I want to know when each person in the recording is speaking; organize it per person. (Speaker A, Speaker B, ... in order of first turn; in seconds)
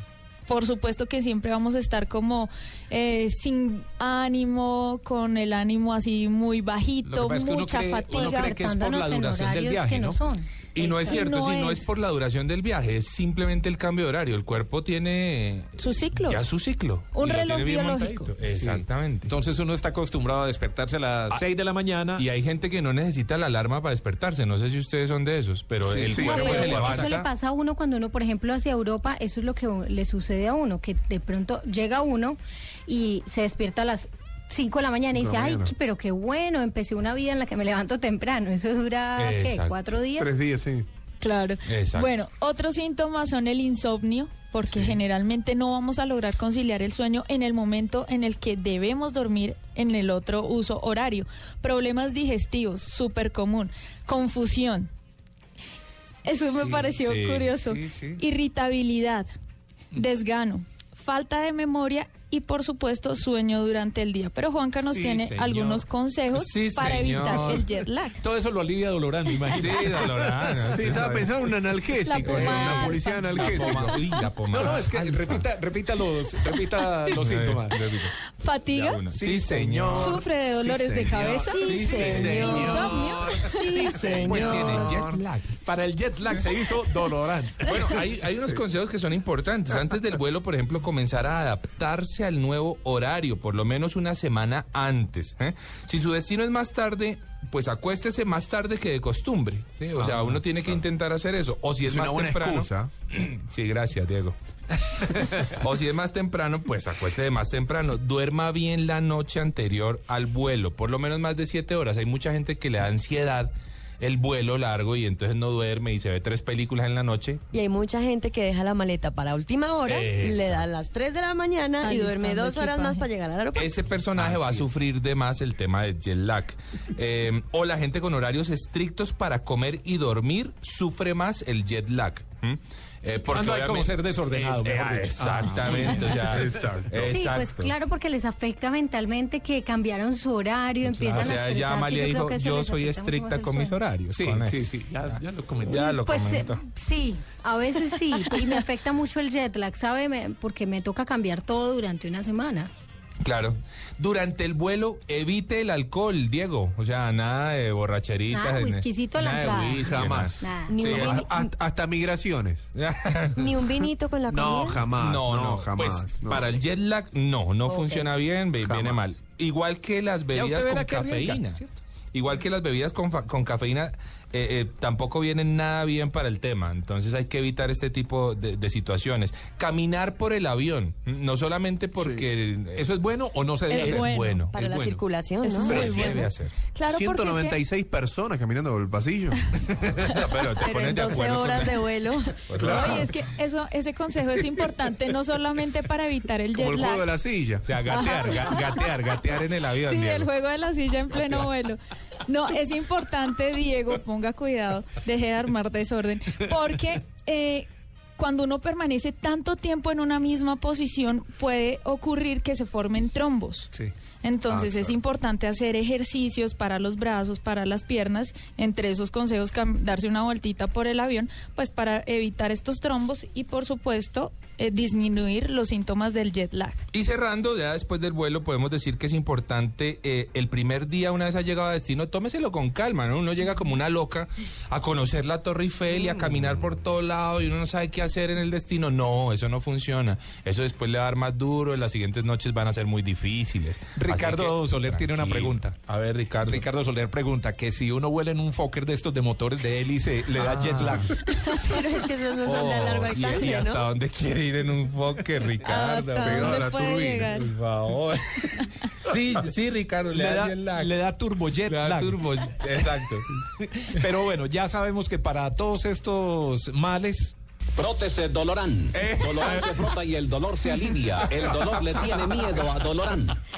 Speaker A: 0.5-8.6, 11.0-11.9, 15.8-16.4, 17.1-18.3, 26.3-26.6, 41.2-54.9, 56.2-59.3, 59.9-68.2, 72.0-74.3, 78.4-79.0, 80.0-84.6, 121.8-123.1, 183.7-184.4, 185.4-187.6, 192.7-197.1, 197.8-198.9, 199.8-213.7, 214.2-226.8, 255.7-257.5
Speaker B: 7.0-10.2, 18.4-22.2, 25.8-27.0, 56.5-56.9, 57.5-58.2, 64.8-65.9, 68.2-71.0, 73.4-78.0, 79.1-80.2, 81.6-82.4, 84.6-88.0, 124.1-124.8, 133.2-136.5, 141.1-141.4, 144.1-145.9, 170.3-171.8, 182.7-185.0, 185.6-186.2, 244.0-245.8, 246.4-251.2, 260.1-267.4, 269.0-269.8
Speaker C: 8.1-11.2, 26.3-40.4, 137.1-143.8, 145.7-152.7, 158.3-161.0
Speaker D: 10.8-19.4, 22.2-27.3, 39.2-40.0, 41.7-42.1, 57.1-57.5, 66.3-67.7, 69.5-71.3, 72.2-75.4, 77.1-78.1, 78.7-80.2, 84.3-85.2, 87.6-104.4, 105.0-117.4, 119.8-120.7, 123.5-137.7, 140.8-146.6, 153.2-161.2, 162.8-163.7, 164.8-171.6, 172.1-182.9, 183.7-184.6, 185.7-186.5, 189.9-191.8, 192.5-193.1, 197.6-200.3, 226.9-246.7, 252.4-256.7, 257.3-260.9, 261.6-263.3, 269.0-269.6, 271.2-272.6
Speaker E: 26.1-27.1, 35.1-35.7, 40.2-40.9, 70.7-74.0, 74.6-74.9, 80.5-85.2, 100.0-100.3, 101.8-102.9, 136.3-137.1, 159.7-162.7, 164.3-166.5, 168.6-169.1, 182.0-182.3, 185.7-186.3, 186.9-190.1, 192.5-193.1, 196.6-197.8, 214.5-215.0, 250.4-251.1, 256.2-257.4
Speaker F: 81.5-83.2, 83.8-84.9, 117.5-123.7, 160.7-161.5, 163.4-164.9, 167.7-168.1, 184.5-185.8, 190.6-192.5, 251.6-253.9
Speaker G: 267.8-273.4